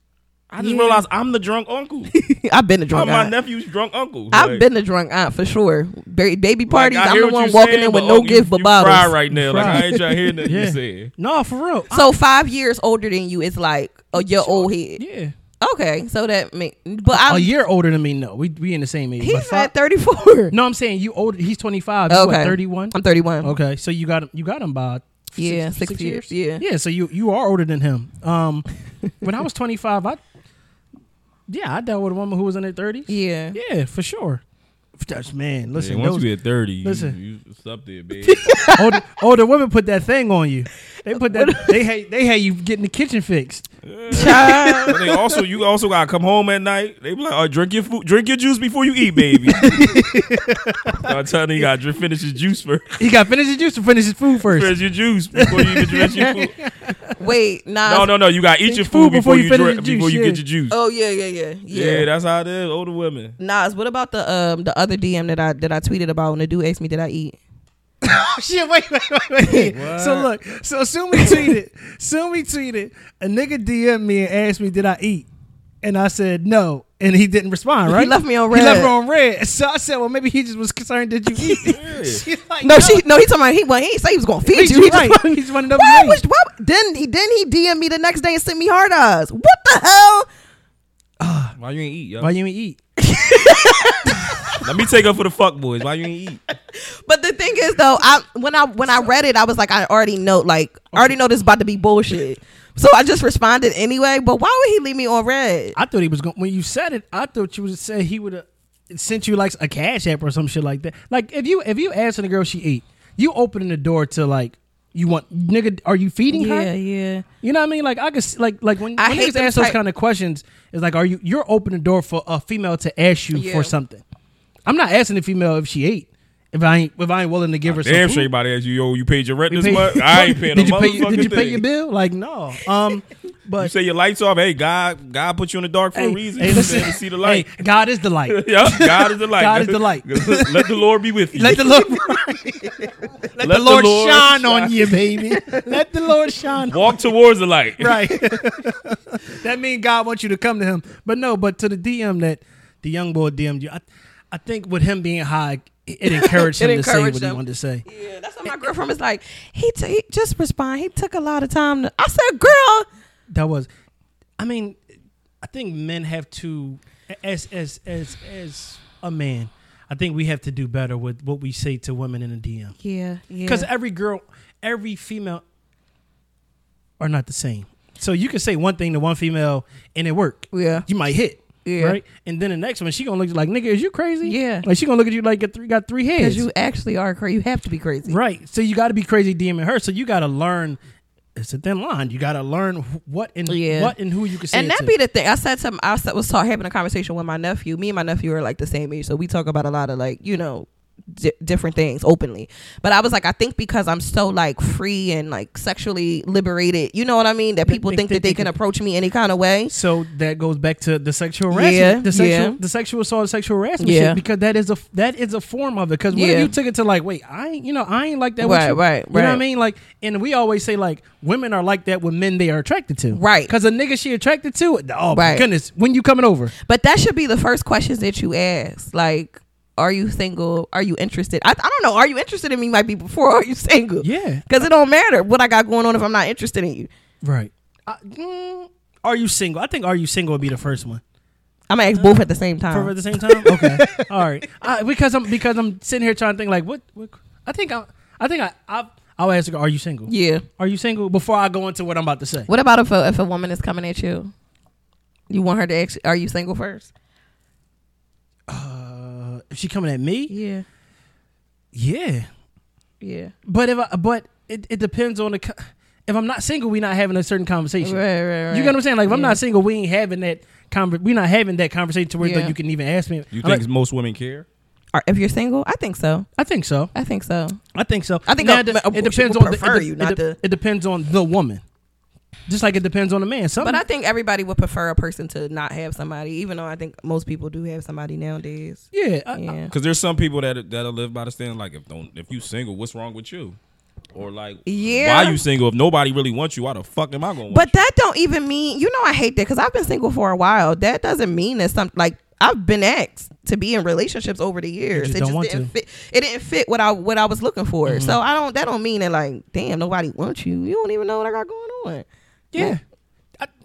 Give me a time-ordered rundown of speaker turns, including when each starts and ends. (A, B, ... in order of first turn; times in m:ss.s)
0:00.5-0:02.1 A
0:00.6-0:01.0 B
0:02.1-0:03.3 B
0:02.9-0:04.6 A
0:04.3-0:10.4 B
0:06.7-0:11.1 A
0:09.3-0:09.9 C
0:10.4-0:12.1 C
0:11.9-0:15.0 B
0:14.2-0:15.3 C
0:15.6-0:17.5 B
0:17.1-0:19.7 C
0:19.2-0:20.5 B
0:20.5-0:28.6 C
0:22.1-0:23.5 B
0:25.4-0:26.6 B
0:29.2-0:30.2 C
0:31.5-0:34.4 C
0:33.1-0:33.6 B
0:35.0-0:36.3 C
0:35.7-0:38.6 A
0:36.8-0:37.2 C
0:38.4-0:39.0 B
0:38.7-0:45.0 C
0:41.1-0:41.8 B
0:43.8-0:49.9 A
0:44.1-0:45.0 B
0:49.6-0:51.0 C
0:51.0-0:53.0 A
0:53.0-0:54.7 C
0:54.4-0:56.5 A
0:55.3-0:57.2 C
0:57.2-0:58.1 B
0:57.8-1:00.8 A
0:58.6-1:00.4 C
1:00.7-1:02.1 B
1:01.7-1:03.4 A
1:03.4-1:07.4 B
1:08.0-1:15.3 C
1:09.7-1:10.3 A
1:15.8-1:23.0 C
1:17.9-1:18.9 B
1:21.4-1:21.7 B
1:21.6-1:22.2 A
1:22.6-1:30.3 B
1:24.5-1:26.2 C
1:31.2-1:31.5 C
1:31.5-1:32.3 A
1:32.2-1:32.8 C
1:33.0-1:34.7 B
1:34.1-1:34.6 C
1:34.6-1:36.4 A
1:36.8-1:45.8 B
1:45.8-1:56.7 C
1:56.3-1:57.2 B
1:57.4-2:04.0 C
1:59.0-1:59.8 B
2:03.3-2:03.7 B
2:04.7-2:08.3 C
2:07.6-2:11.6 A
2:09.5-2:13.7 C
2:13.6-2:17.5 A
2:15.9-2:20.7 C
2:18.3-2:21.8 A
2:21.3-2:27.0 C
2:23.4-2:25.0 A
2:26.7-2:28.3 A
2:27.8-2:37.8 C
2:36.1-2:42.8 B
2:43.3-2:43.7 C
2:44.4-2:44.8 C
2:45.4-2:52.7 C
2:52.8-2:53.7 B
2:53.4-2:55.4 C
2:57.0-3:06.5 C
3:00.5-3:00.8 B
3:01.6-3:02.0 B
3:04.2-3:04.6 B
3:06.2-3:08.2 B
3:08.0-3:10.8 C
3:11.4-3:14.9 C
3:13.5-3:13.9 B
3:14.5-3:29.7 B
3:27.6-3:28.5 C
3:29.7-3:46.5 C
3:31.5-3:32.6 B
3:33.8-3:34.2 B
3:36.1-3:36.5 B
3:38.4-3:39.4 B
3:43.1-3:43.5 B
3:45.1-3:45.5 B
3:46.6-3:56.9 B
3:54.0-3:54.5 C
3:57.2-4:01.0 C
4:01.7-4:04.0 B
4:02.7-4:12.5 C
4:10.1-4:10.4 B
4:12.5-4:14.3 B
4:15.3-4:16.9 B
4:18.5-4:20.3 C
4:20.3-4:20.6 B
4:21.7-4:22.3 C
4:23.0-4:23.3 B
4:23.5-4:33.6 C
4:27.8-4:29.4 B
4:32.2-4:32.5 B
4:33.3-4:34.5 A
4:34.9-4:36.3 B
4:36.4-4:36.9 C
4:36.9-4:37.6 B
4:37.7-4:41.6 C
4:38.3-4:40.4 B
4:42.5-4:43.8 C
4:43.6-4:49.7 B
4:48.9-4:49.5 C
4:49.7-4:53.6 A
4:54.1-4:57.7 A
4:54.6-4:55.4 B
4:57.5-5:12.0 B
5:04.9-5:05.7 C
5:07.8-5:08.2 C
5:12.5-5:12.8 C